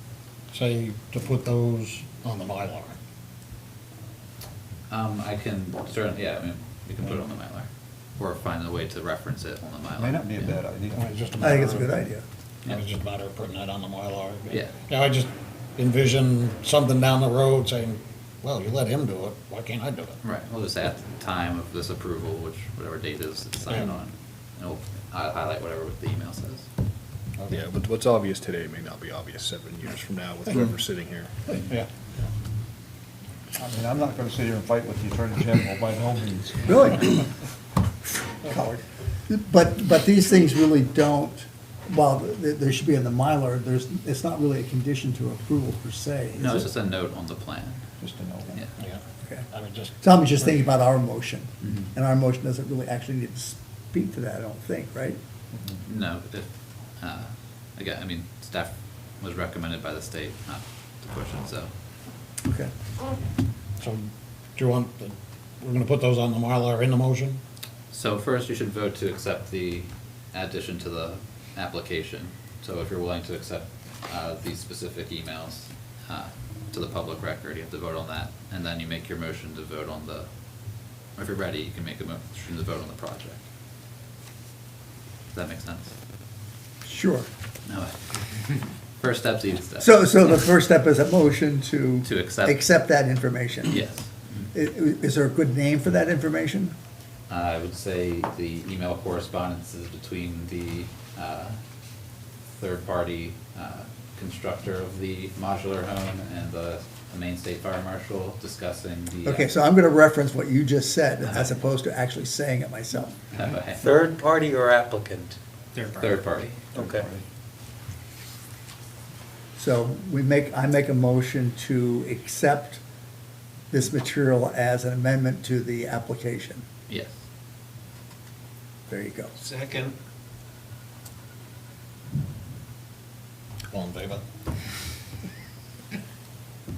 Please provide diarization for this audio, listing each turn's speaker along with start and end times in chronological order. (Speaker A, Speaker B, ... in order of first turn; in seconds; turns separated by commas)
Speaker A: 0.5-3.0, Speaker B: 4.9-10.6, Speaker C: 9.9-11.1, Speaker A: 10.9-12.0, Speaker D: 11.4-12.2, Speaker A: 12.7-20.2, Speaker B: 20.2-26.7, Speaker E: 27.5-31.3, Speaker A: 31.5-31.9, Speaker C: 33.6-36.7, Speaker D: 36.6-37.2, Speaker D: 38.5-46.7, Speaker B: 46.4-47.8, Speaker C: 48.0-48.5, Speaker A: 49.5-50.0, Speaker D: 50.0-55.2, Speaker B: 51.6-51.9, Speaker B: 55.8-56.5, Speaker B: 57.0-61.7, Speaker A: 63.8-67.4, Speaker B: 67.9-80.3, Speaker B: 81.2-83.4, Speaker B: 85.3-85.9, Speaker D: 86.8-87.3, Speaker B: 87.7-90.0, Speaker D: 89.8-93.8, Speaker B: 92.0-92.6, Speaker B: 93.7-94.5, Speaker D: 94.5-96.8, Speaker B: 97.3-101.6, Speaker B: 102.6-109.5, Speaker D: 109.2-113.1, Speaker B: 111.2-111.6, Speaker B: 113.3-114.0, Speaker F: 113.8-115.4, Speaker B: 116.0-116.7, Speaker C: 116.8-117.0, Speaker F: 116.8-117.0, Speaker D: 119.6-122.8, Speaker D: 123.7-126.6, Speaker B: 126.9-127.1, Speaker D: 128.9-129.3, Speaker A: 133.7-134.2